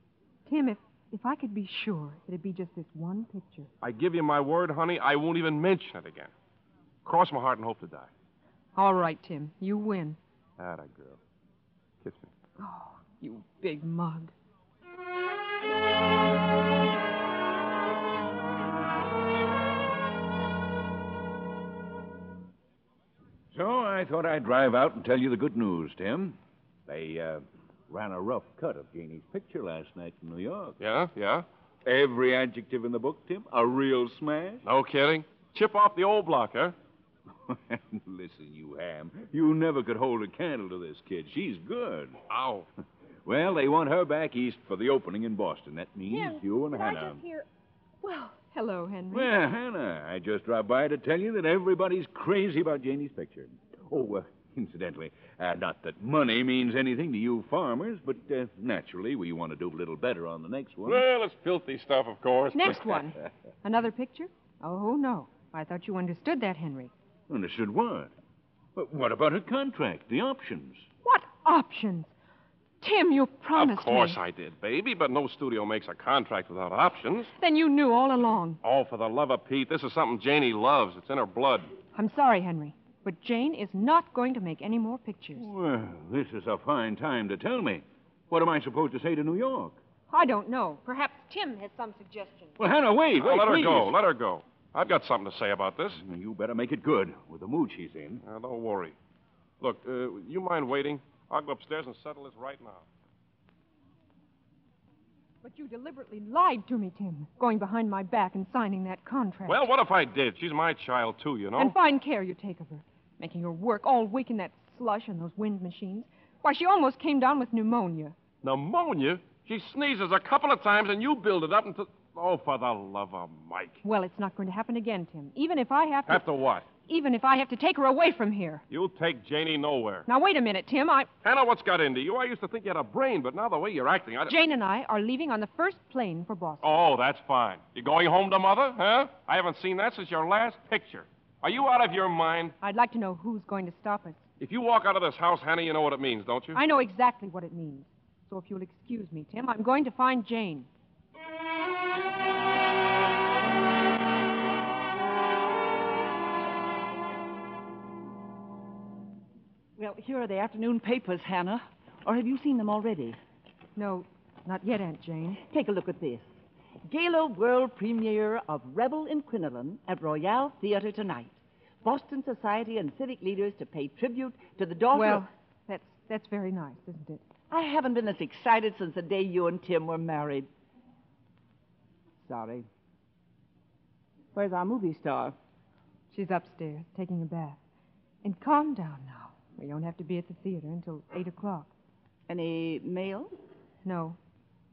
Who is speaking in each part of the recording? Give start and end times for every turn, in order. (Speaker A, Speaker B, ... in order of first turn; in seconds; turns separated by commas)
Speaker A: 0.5-3.7, Speaker B: 3.8-6.3, Speaker B: 7.0-8.1, Speaker A: 8.8-10.2, Speaker B: 10.6-11.2, Speaker B: 12.0-12.3, Speaker A: 12.6-14.3, Speaker C: 23.5-30.8, Speaker B: 30.8-31.4, Speaker C: 31.8-34.6, Speaker B: 34.6-36.7, Speaker C: 37.5-42.2, Speaker B: 42.3-42.7, Speaker C: 43.2-47.2, Speaker A: 46.1-47.4, Speaker A: 48.0-49.3, Speaker C: 49.1-61.0, Speaker B: 60.9-63.0, Speaker A: 62.5-66.9, Speaker C: 67.3-68.1, Speaker C: 68.7-70.8, Speaker A: 71.0-72.1, Speaker A: 72.8-74.2, Speaker B: 73.5-77.3, Speaker A: 77.4-78.6, Speaker B: 78.6-81.7, Speaker A: 81.9-85.5, Speaker C: 85.3-89.8, Speaker A: 90.1-92.5, Speaker C: 92.6-94.0, Speaker B: 93.2-96.0, Speaker C: 95.9-98.2, Speaker B: 98.2-99.0, Speaker B: 99.6-102.8, Speaker A: 105.4-109.7, Speaker B: 109.5-111.7, Speaker A: 111.5-118.1, Speaker B: 118.4-123.8, Speaker A: 123.8-126.2, Speaker B: 126.1-126.7, Speaker A: 126.9-128.6, Speaker B: 128.7-130.1, Speaker A: 130.1-131.1, Speaker B: 131.2-134.3, Speaker A: 134.3-136.7, Speaker B: 136.6-142.5, Speaker A: 142.6-144.2, Speaker B: 144.4-146.6, Speaker A: 146.5-150.7, Speaker D: 159.8-163.2, Speaker A: 163.8-165.4, Speaker D: 165.4-166.2, Speaker D: 166.9-175.2, Speaker A: 174.9-177.2, Speaker D: 177.5-180.5, Speaker D: 182.2-182.7, Speaker D: 184.3-185.3, Speaker A: 186.1-187.6, Speaker A: 188.2-191.7, Speaker D: 192.3-193.3, Speaker A: 193.8-194.2